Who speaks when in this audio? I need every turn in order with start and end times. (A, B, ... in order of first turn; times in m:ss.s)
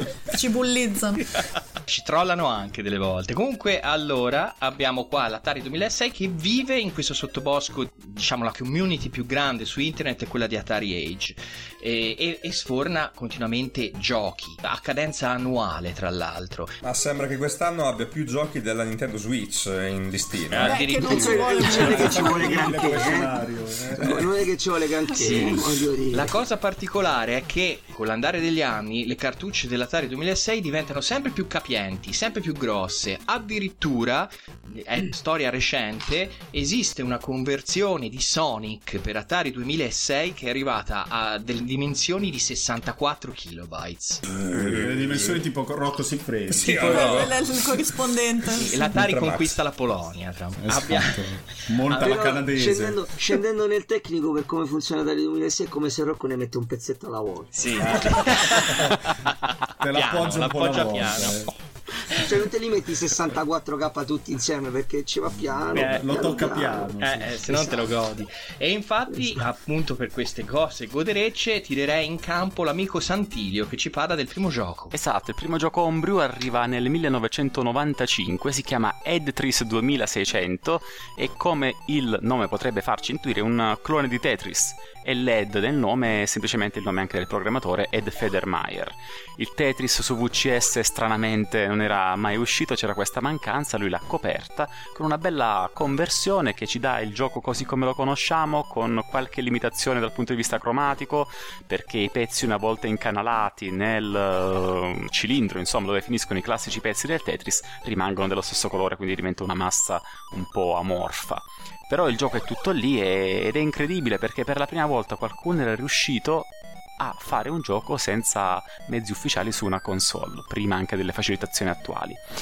0:00.4-0:01.2 A
0:01.4-0:16.7 B
0:16.8-0:20.8 C
0:20.5-0:22.3 B
0:20.5-0:22.7 A
0:21.0-0:24.3 D
0:21.0-0:23.5 E
0:24.0-0:26.4 E
0:25.2-0:44.2 B
0:25.2-0:25.5 A
0:44.3-0:45.4 C
0:44.5-0:47.4 D
0:46.5-0:47.9 C
0:46.7-0:49.0 A
0:48.5-0:51.2 B
0:48.9-0:49.6 C
0:50.6-0:53.0 D
0:51.9-0:52.2 B
0:51.9-0:58.2 E
0:57.6-0:59.3 B
0:57.8-0:59.0 D
0:59.8-1:01.5 D
0:59.9-1:01.4 B
1:02.2-1:06.9 E
1:05.7-1:07.4 D
1:05.7-1:06.2 B
1:07.0-1:15.0 B
1:07.5-1:07.8 E
1:09.1-1:09.4 E
1:14.9-2:02.2 F